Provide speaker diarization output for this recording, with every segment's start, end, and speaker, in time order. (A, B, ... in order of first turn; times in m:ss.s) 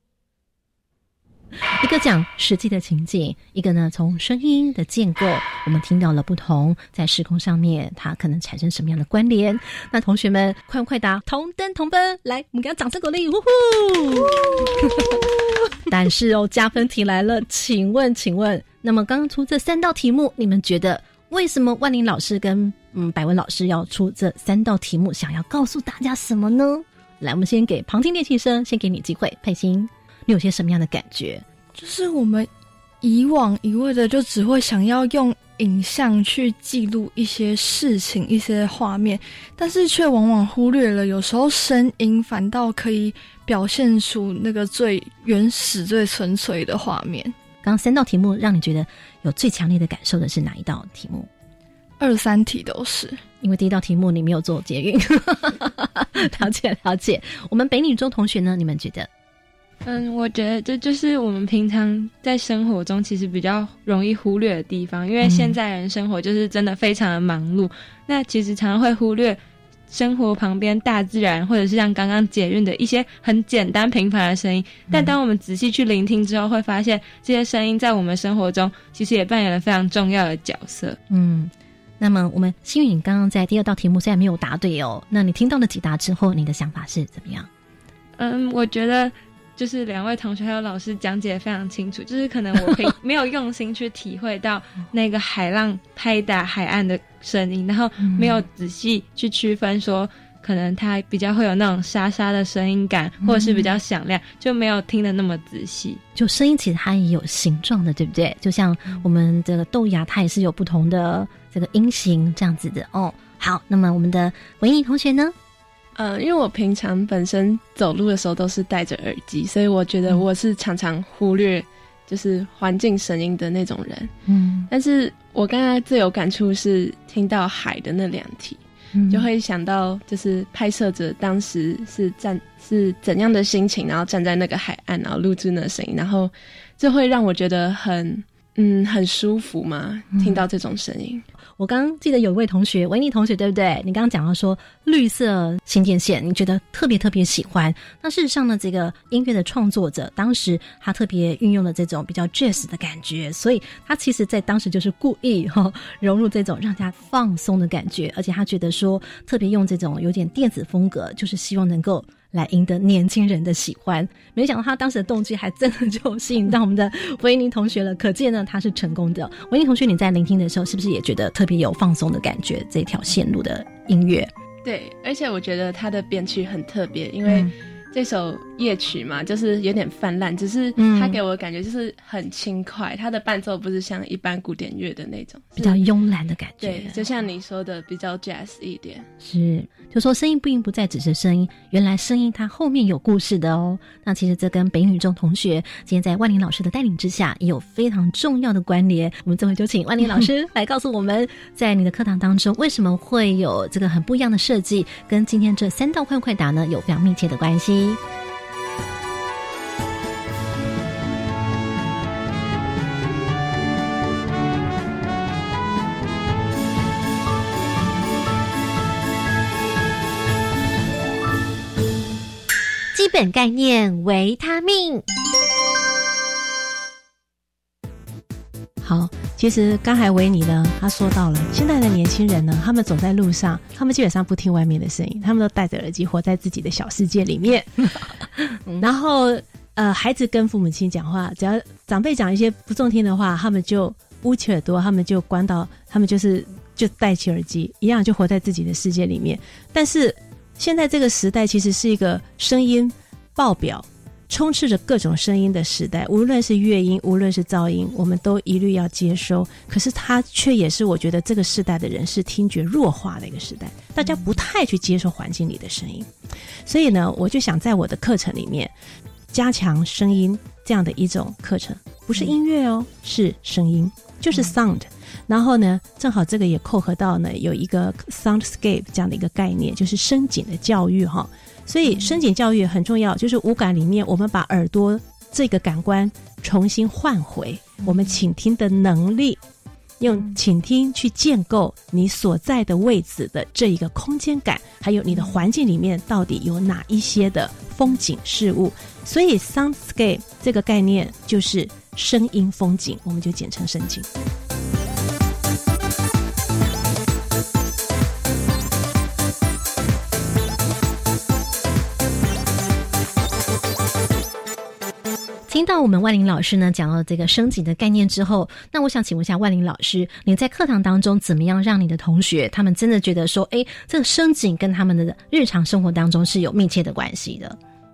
0:01.8-0:15.3 A
0:15.9-0:31.4 A
0:31.8-0:32.5 B
0:33.0-0:47.3 B
0:47.6-0:51.3 A
0:52.0-0:53.2 B
0:53.4-0:59.1 A
0:59.8-1:09.4 C
1:05.2-1:05.6 A
1:09.9-1:21.0 C
1:21.1-1:27.5 A
1:28.2-1:46.0 C
1:38.0-1:38.4 A
1:43.2-1:43.7 A
1:46.2-1:55.4 A
1:56.0-2:04.1 D
2:04.3-2:04.7 A
2:04.7-2:21.2 D
2:09.0-2:09.3 A
2:21.6-2:54.3 A
2:54.6-3:05.8 D
2:57.3-2:57.5 A
3:00.8-3:01.2 A
3:05.6-3:07.0 A
3:06.6-3:09.1 D
3:09.2-3:28.0 A
3:42.9-3:45.0 A
3:48.8-3:57.9 E
3:58.8-4:26.1 E
4:26.7-4:28.7 E
4:29.3-4:49.4 E
4:41.9-4:42.2 A
4:47.8-4:48.2 A
4:50.0-5:04.1 E
4:55.1-4:55.4 A
5:15.5-5:27.6 A